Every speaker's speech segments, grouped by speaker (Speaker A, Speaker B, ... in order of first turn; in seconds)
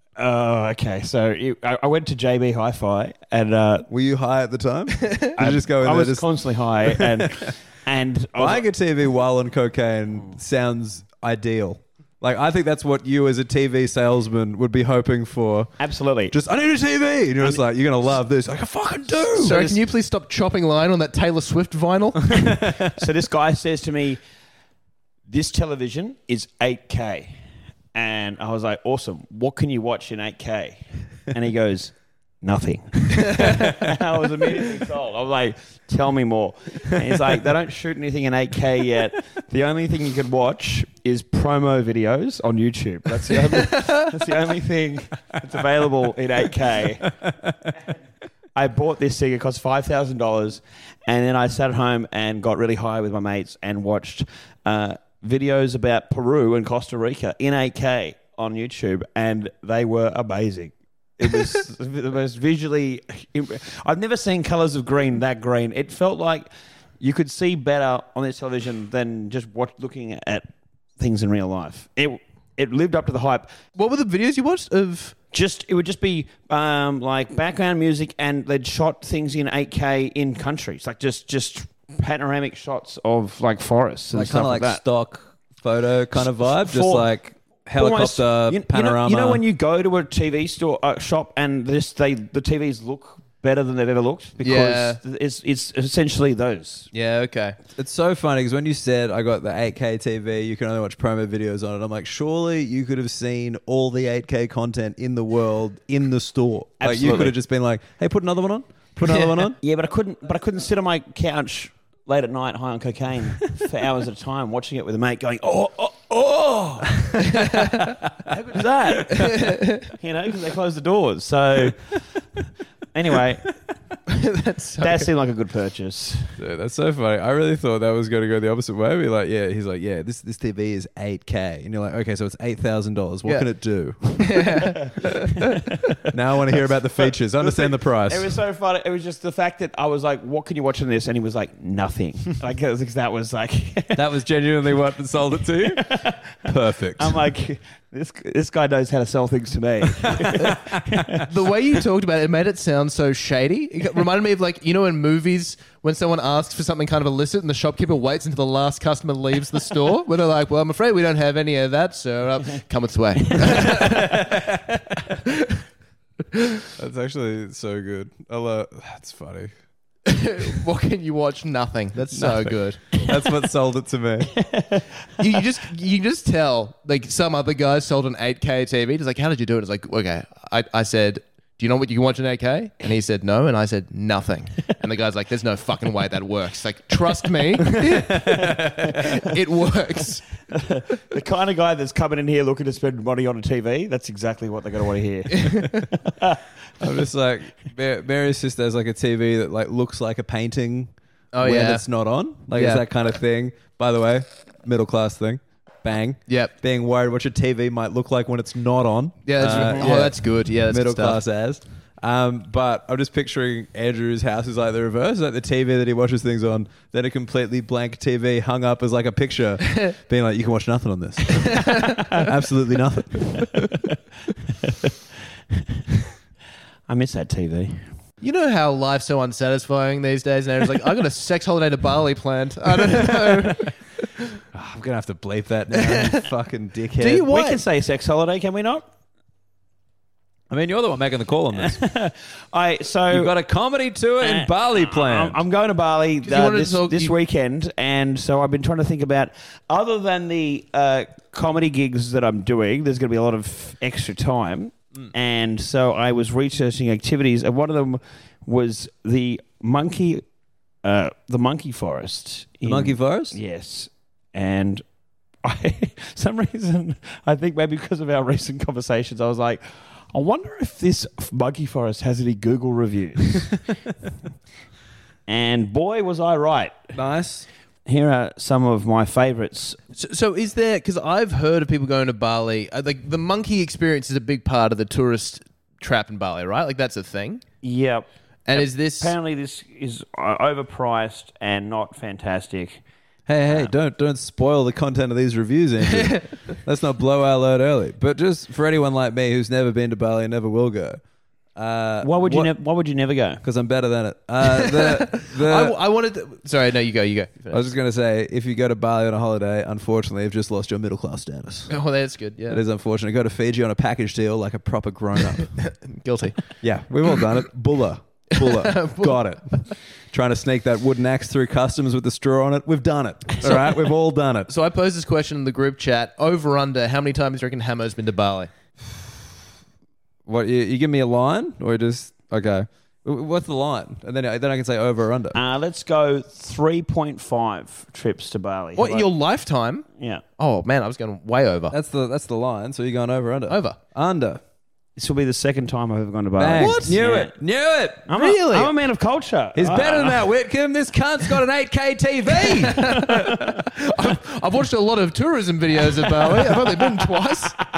Speaker A: 0.2-3.9, 5.4-8.7, 15.8-16.4, 23.0-24.2, 25.3-27.4, 27.9-47.1, 48.5-66.5, 67.0-70.5, 71.0-73.5, 75.3-84.8, 86.2-87.1, 87.7-96.9, 106.8-107.4, 109.6-117.5, 118.2-122.0, 122.9-123.5, 124.8-126.4, 137.4-144.2, 145.6-146.2, 147.0-151.2, 174.5-174.8, 190.5-196.4, 209.4-209.9, 224.6-224.9, 226.9-227.9, 237.2-238.9, 241.6-243.3, 244.2-260.2, 260.8-264.8, 265.4-273.6, 275.3-276.8, 277.9-279.8, 287.6-292.8, 302.0-303.4, 335.3-339.1, 340.0-340.2, 345.0-347.4, 348.1-350.2
Speaker B: 3.9-6.2, 6.9-7.5, 8.4-15.7, 16.3-19.8, 22.4-22.8, 84.1-89.4, 97.8-109.6, 126.4-134.6, 136.1-138.3, 143.9-147.2, 163.8-164.9, 166.8-169.6, 172.1-174.4, 188.0-189.0, 196.8-223.4, 234.5-237.3, 240.5-241.8, 243.1-245.4, 262.7-263.4, 276.9-277.5, 293.3-301.0, 301.6-302.5, 303.4-305.8, 307.5-311.8, 312.5-315.7, 316.6-324.5, 330.3-335.4, 341.7-344.4, 346.4-348.7, 349.6-353.6
Speaker C: 19.4-22.4, 73.8-75.2, 94.4-95.0, 96.9-97.6, 119.2-119.9, 124.1-125.1, 134.2-135.6, 151.3-164.2, 170.1-173.0, 175.2-188.5, 189.0-190.2, 195.3-195.8, 201.3-201.9, 202.5-202.8, 206.3-206.5, 209.3-211.2, 228.2-233.7, 235.8-236.2, 237.0-237.6, 246.2-247.1, 279.9-287.4, 288.5-289.1, 304.8-307.7, 311.7-312.6, 315.6-316.5, 318.4-319.2, 323.4-323.8, 324.5-328.5, 338.8-339.9, 340.4-341.8, 343.5-343.8, 346.6-346.9, 352.6-357.6